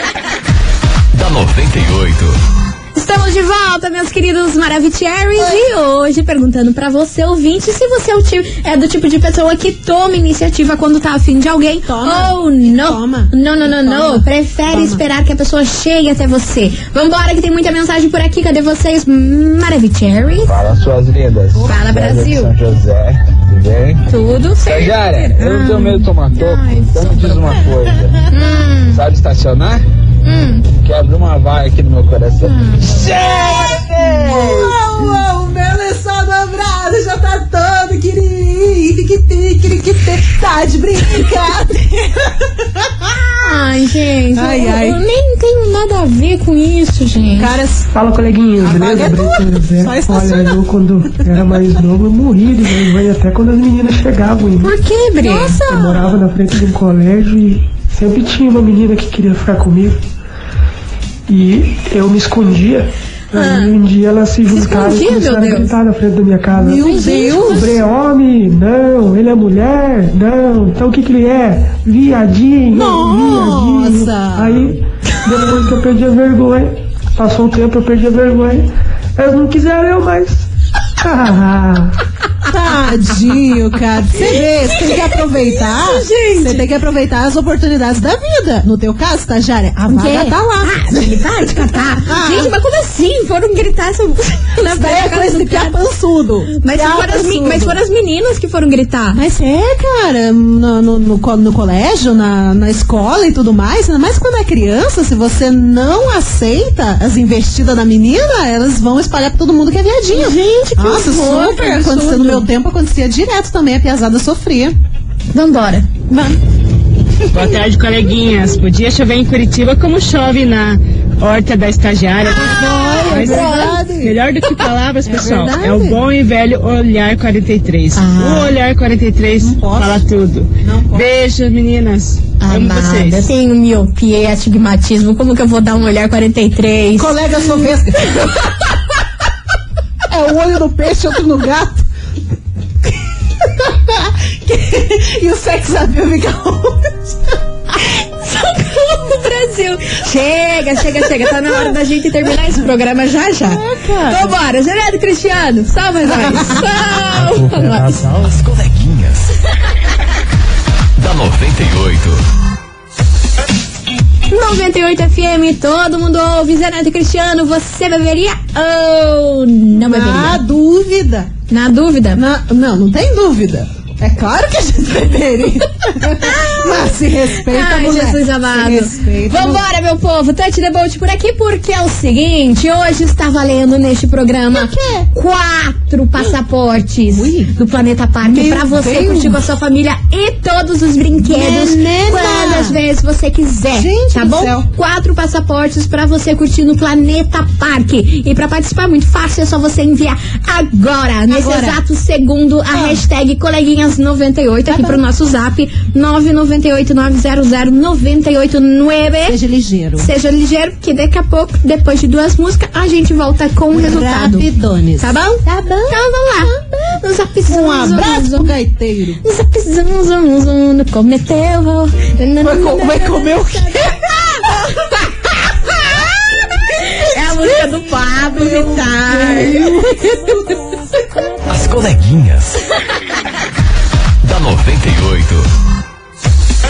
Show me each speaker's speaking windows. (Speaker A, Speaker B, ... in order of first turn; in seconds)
Speaker A: 1.1-2.4, 157.4-159.3, 161.0-162.2, 231.5-232.6, 234.2-235.5
Speaker B: 2.9-20.5, 21.6-22.5, 24.1-27.7, 28.3-29.0, 30.2-30.7, 32.4-33.2, 43.4-47.5, 54.6-56.0, 63.3-63.7, 64.5-65.7, 66.8-67.4, 84.9-86.6, 89.9-95.8, 96.5-99.2, 110.1-112.5, 115.3-116.1, 123.0-123.8, 127.9-128.5, 132.4-137.7, 148.0-158.0, 164.3-170.4, 171.5-172.2, 176.1-209.4, 210.0-214.4, 215.0-218.5, 219.2-224.1, 226.8-229.6
Speaker C: 5.4-5.6, 11.9-15.0, 21.5-21.9, 27.5-28.1, 33.0-43.3, 44.4-45.0, 47.4-47.9, 48.6-50.6, 55.3-55.6, 66.5-67.8, 72.7-74.7, 82.5-91.2, 92.1-92.5, 94.6-97.8, 99.1-114.7, 122.3-124.2, 125.0-126.0, 129.4-130.1, 130.6-131.1, 136.9-138.4, 140.1-141.8, 143.4-147.4, 151.5-151.7, 153.4-154.3, 156.1-156.7, 169.7-171.3, 172.2-179.6, 184.5-185.1, 187.1-187.5, 188.2-189.4, 191.2-192.8, 193.7-194.7, 201.3-201.8, 202.7-203.0, 204.7-205.0, 209.2-210.1, 213.7-219.2, 222.4-226.2, 226.8-231.3
Speaker D: 20.5-24.0, 24.6-28.1, 28.9-29.8, 30.8-34.8
Speaker E: 47.9-54.8, 55.5-60.0, 61.3-80.5, 81.0-81.9
Speaker F: 117.3-133.3